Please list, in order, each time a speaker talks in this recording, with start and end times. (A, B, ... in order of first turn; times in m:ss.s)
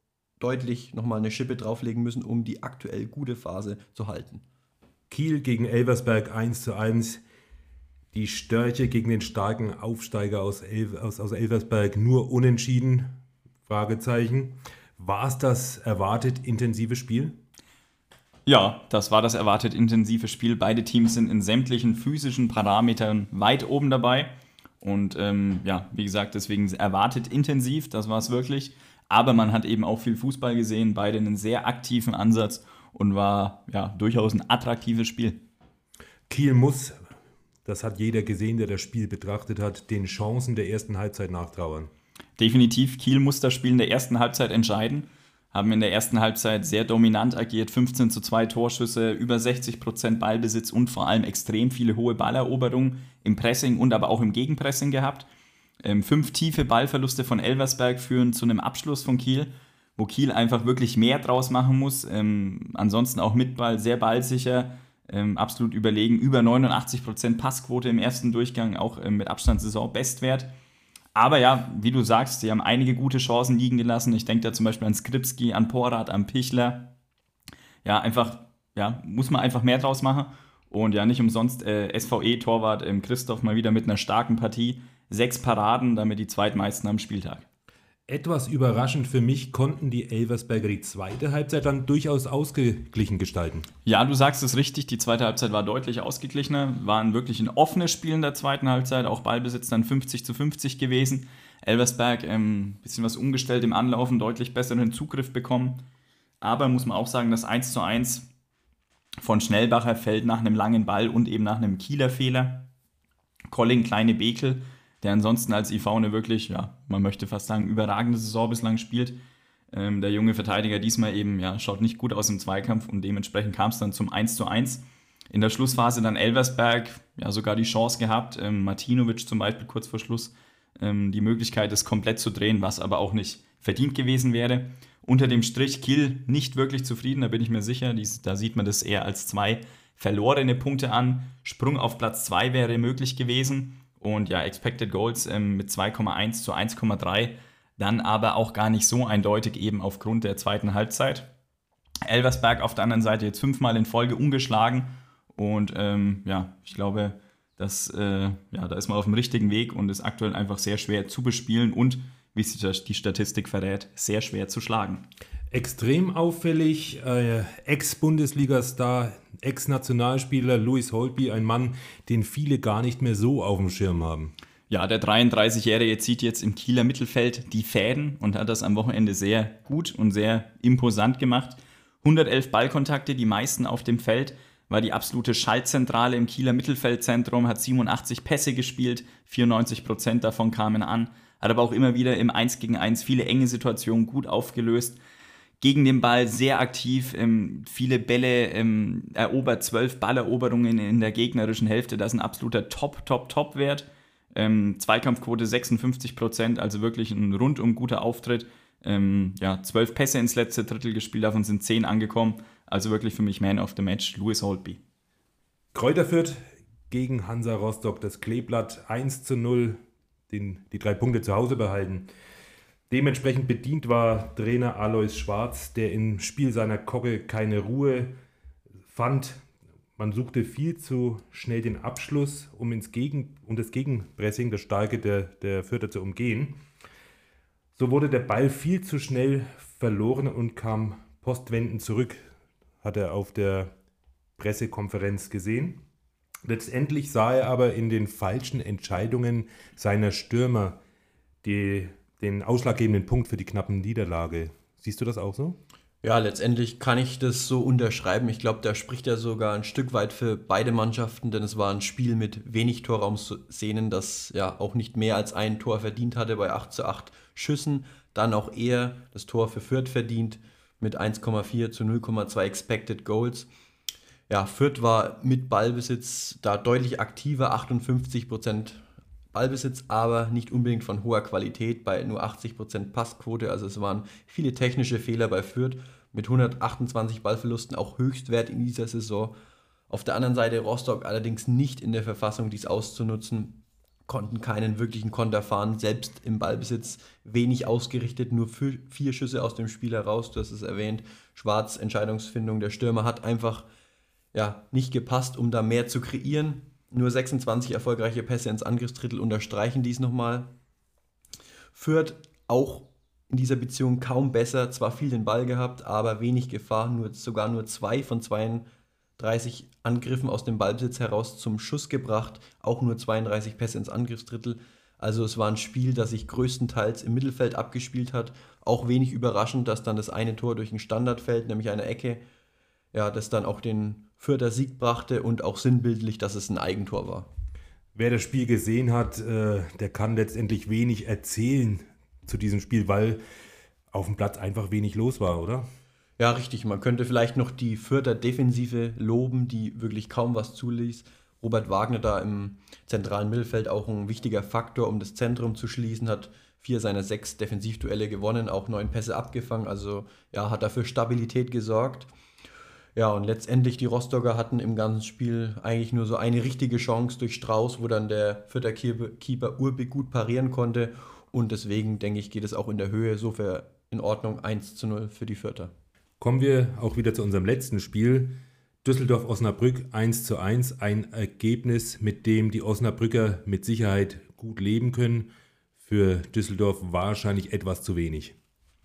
0:00.4-0:04.4 A
0:05.1-0:07.2 B
0:08.1-0:13.1 B
0:13.6-0:17.4 B
0:18.4-0:35.4 C
0:36.3-0:37.0 B
0:37.6-0:41.9 B
0:42.4-0:55.3 C
0:55.8-1:10.5 C
1:11.1-1:16.9 C
1:17.8-1:27.4 C
1:28.1-1:33.7 B
1:33.8-1:45.8 C
1:46.4-1:48.3 C
1:49.2-1:52.6 C
1:53.5-1:59.2 C
1:59.7-2:31.3 C
2:32.0-2:45.0 C
2:45.5-2:54.3 B
2:54.7-3:15.0 C
3:15.6-3:34.8 C
3:35.7-3:39.8 B
3:40.3-3:42.1 B
3:42.9-3:48.1 B
3:48.9-3:49.4 B
3:50.0-3:56.6 B
3:57.8-4:02.3 B
4:02.8-4:03.7 B
4:04.4-4:05.8 B
4:06.4-4:10.8 B
4:11.4-4:15.6 B
4:16.0-4:33.5 A
4:34.3-4:49.3 A
4:49.9-5:03.6 A
5:04.3-5:10.5 A
5:11.7-5:18.6 A
5:19.2-5:32.2 A
5:32.9-5:37.3 A
5:37.9-5:43.2 B
5:43.9-5:45.6 B
5:46.2-6:02.1 A
6:02.9-6:15.7 A
6:16.2-6:25.3 B
6:25.8-6:28.3 B